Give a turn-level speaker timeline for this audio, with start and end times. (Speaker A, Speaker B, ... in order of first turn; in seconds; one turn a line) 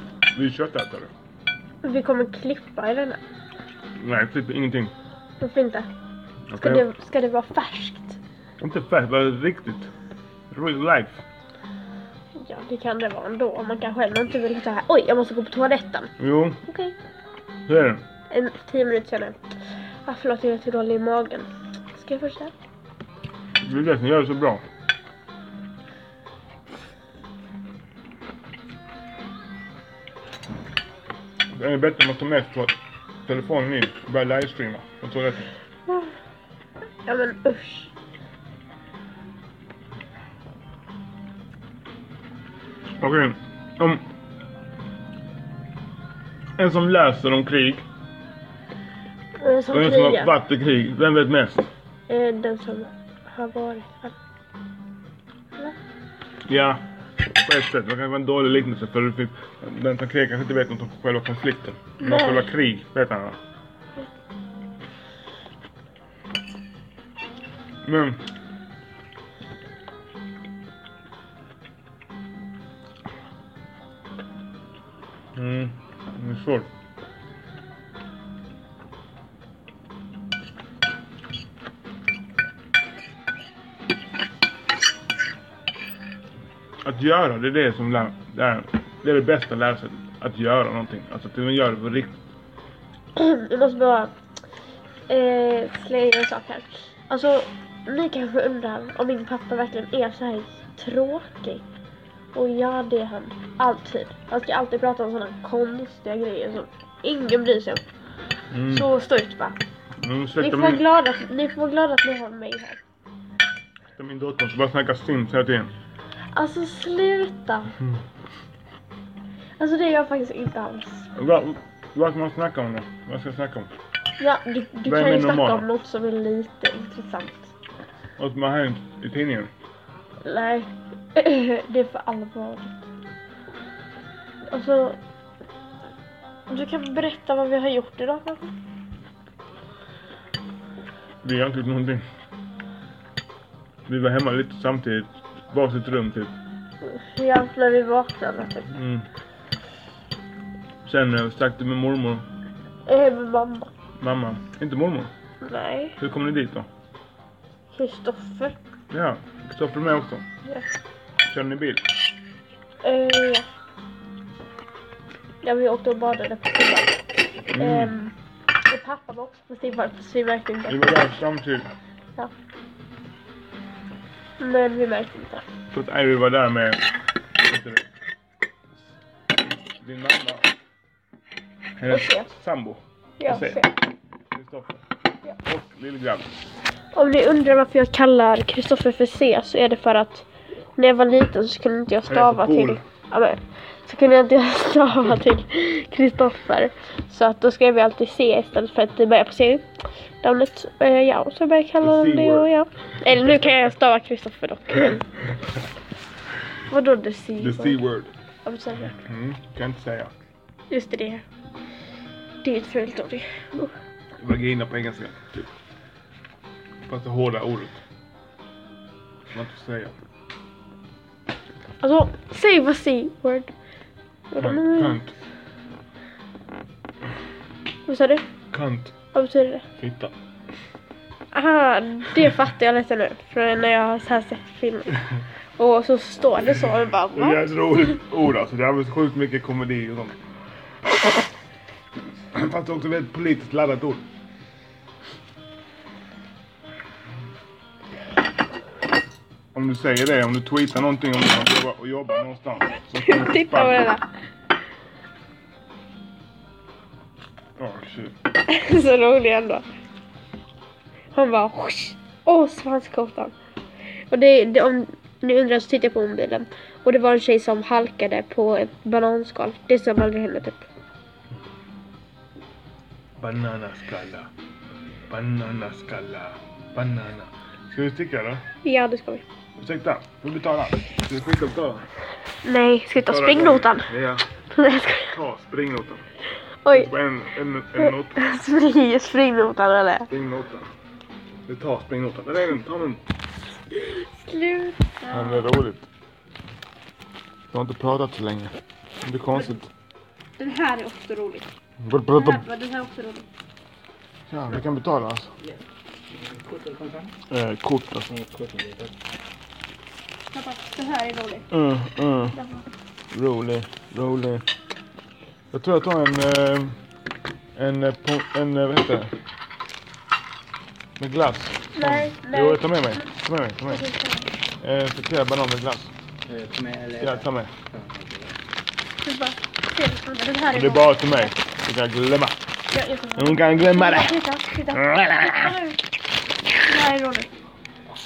Speaker A: 0.3-1.1
Speaker B: 1.8-3.2
Speaker A: 4.0-4.9
Speaker B: 5.4-5.9
Speaker A: 6.5-6.8
Speaker B: 6.6-8.2
Speaker A: 8.6-9.9
Speaker A: 10.5-11.2
Speaker B: 12.3-16.1
Speaker A: 16.2-16.6
Speaker B: 16.6-16.9
Speaker A: 17.7-18.0
Speaker B: 18.3-19.4
Speaker B: 20.0-22.5
Speaker A: 23.6-24.6
Speaker A: 31.5-32.7
Speaker A: 33.2-35.5
Speaker B: 37.0-37.9
Speaker A: 43.0-44.0
Speaker A: 46.6-47.8
Speaker B: 49.4-50.3
Speaker A: 49.7-51.7
Speaker B: 52.1-54.1
Speaker A: 56.5-56.8
Speaker A: 57.4-63.4
Speaker B: 62.0-62.5
Speaker A: 67.8-68.2
Speaker A: 75.3-76.7
Speaker A: 86.8-92.1
Speaker B: 93.2-94.1
Speaker B: 95.1-101.6
Speaker B: 102.3-107.8
Speaker A: 108.5-108.9
Speaker B: 108.7-109.6
Speaker A: 110.0-110.8
Speaker B: 110.4-112.8
Speaker A: 114.0-115.7
Speaker B: 116.3-117.7
Speaker B: 119.6-121.1
Speaker A: 121.1-123.7
Speaker B: 124.2-127.5
Speaker A: 124.8-125.7
Speaker A: 128.2-129.5
Speaker B: 130.2-132.8
Speaker B: 134.5-135.0
Speaker B: 136.5-138.5
Speaker A: 141.2-142.0
Speaker A: 143.9-146.3
Speaker B: 146.8-148.7
Speaker A: 148.7-149.1
Speaker A: 150.8-152.2
Speaker B: 152.9-153.7
Speaker A: 154.0-155.1
Speaker B: 155.4-156.0
Speaker A: 156.0-156.7
Speaker B: 157.7-158.6
Speaker A: 158.9-160.2
Speaker A: 161.2-161.8
Speaker B: 162.8-163.5
Speaker B: 165.4-167.0
Speaker A: 167.5-167.9
Speaker B: 167.6-168.1
Speaker B: 168.7-170.8
Speaker A: 170.7-171.7
Speaker B: 174.4-175.4
Speaker A: 175.7-176.8
Speaker A: 177.4-177.9
Speaker A: 179.4-180.5
Speaker A: 181.8-183.6
Speaker B: 181.9-182.3
Speaker B: 183.2-183.7
Speaker A: 184.3-184.8
Speaker A: 185.4-186.3
Speaker B: 186.9-190.2
Speaker B: 190.8-199.7
Speaker A: 192.0-192.8
Speaker B: 200.2-205.0
Speaker A: 201.8-202.5
Speaker B: 206.7-207.8
Speaker A: 207.4-208.1
Speaker B: 208.4-209.0
Speaker A: 208.9-210.1
Speaker B: 210.7-211.2
Speaker B: 212.4-213.7
Speaker A: 214.2-215.5
Speaker A: 216.9-217.8
Speaker A: 219.3-219.9
Speaker B: 221.8-223.5
Speaker B: 224.3-225.0
Speaker A: 224.4-225.1
Speaker B: 227.9-228.2
Speaker A: 228.5-228.9
Speaker B: 229.1-229.6
Speaker A: 229.8-230.1
Speaker B: 231.3-235.0
Speaker B: 235.6-237.5
Speaker A: 237.1-240.2
Speaker A: 242.3-244.1
Speaker A: 249.5-253.9
Speaker B: 253.0-254.0
Speaker A: 257.6-258.1
Speaker B: 258.5-259.6
Speaker B: 261.1-263.3
Speaker B: 264.1-270.6
Speaker A: 273.2-274.3
Speaker A: 275.1-278.4
Speaker B: 278.6-279.2
Speaker A: 279.6-281.9
Speaker B: 282.4-283.9
Speaker A: 282.9-284.3
Speaker B: 284.5-285.1
Speaker A: 285.1-286.0
Speaker B: 286.6-286.9
Speaker A: 286.7-288.2
Speaker B: 287.8-290.1
Speaker A: 290.1-290.7
Speaker A: 291.5-293.0
Speaker B: 293.7-295.5
Speaker A: 295.1-295.9
Speaker A: 297.5-299.7
Speaker B: 300.4-301.5
Speaker A: 301.8-302.4
Speaker B: 302.2-303.3
Speaker A: 304.3-305.3
Speaker C: 306.2-307.1
Speaker A: 307.3-308.1
Speaker C: 308.1-308.9
Speaker B: 310.3-311.5
Speaker A: 311.5-312.4
Speaker B: 312.3-312.6
Speaker A: 313.1-314.4
Speaker A: 315.5-316.8
Speaker A: 317.6-319.1
Speaker A: 321.0-323.8
Speaker B: 321.8-322.6
Speaker B: 323.7-324.3
Speaker A: 324.6-325.9
Speaker C: 326.3-328.4
Speaker A: 327.0-327.5
Speaker B: 329.0-331.3
Speaker A: 330.5-332.4
Speaker B: 332.7-335.8
Speaker A: 333.2-335.6
Speaker B: 336.6-337.3